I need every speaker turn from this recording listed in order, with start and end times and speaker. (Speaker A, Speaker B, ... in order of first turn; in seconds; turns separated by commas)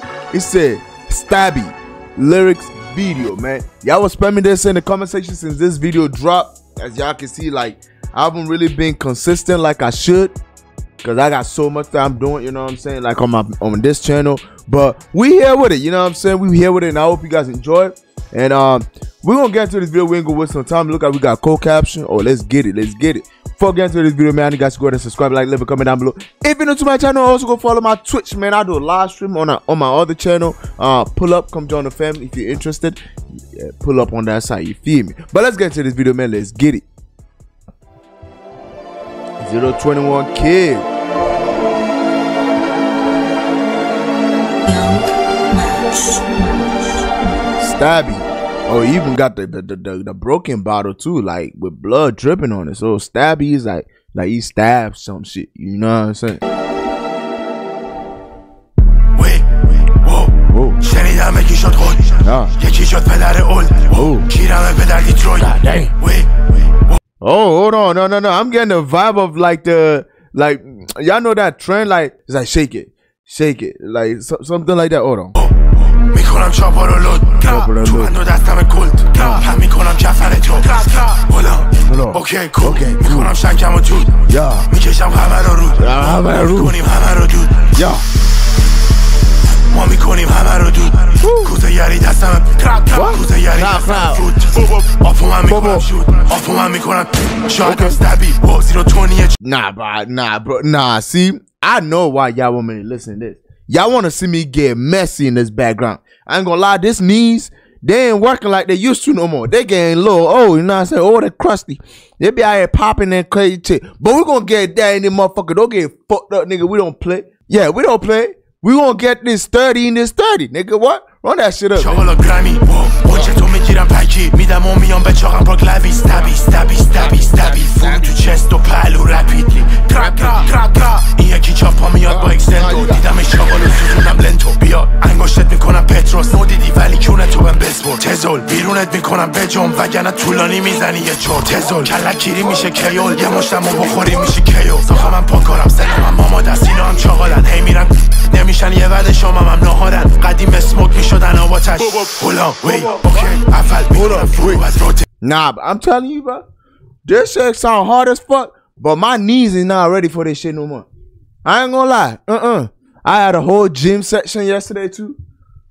Speaker A: 0.3-10.3, Speaker A: 11.0-36.8, Speaker A: 39.4-40.9, Speaker B: 44.7-47.0, Speaker A: 47.6-56.4, Speaker C: 59.1-67.0, Speaker A: 60.5-60.8, Speaker A: 62.2-62.5, Speaker A: 63.9-64.3, Speaker A: 65.4-65.9, Speaker A: 67.2-75.3, Speaker C: 75.3-87.8, Speaker A: 77.4-78.2, Speaker A: 81.9-83.3, Speaker A: 84.3-84.7, Speaker A: 85.8-86.8, Speaker A: 87.7-88.0, Speaker C: 89.6-99.3, Speaker A: 91.2-91.5, Speaker A: 92.9-94.3, Speaker A: 95.5-95.9, Speaker A: 97.6-98.0, Speaker A: 99.4-122.2, Speaker C: 121.7-155.1, Speaker A: 123.1-123.3, Speaker A: 126.8-128.3, Speaker A: 129.9-130.5, Speaker A: 132.0-133.1, Speaker A: 152.9-153.3, Speaker A: 153.9-154.7, Speaker A: 155.2-156.4, Speaker A: 157.0-160.8, Speaker A: 161.4-165.2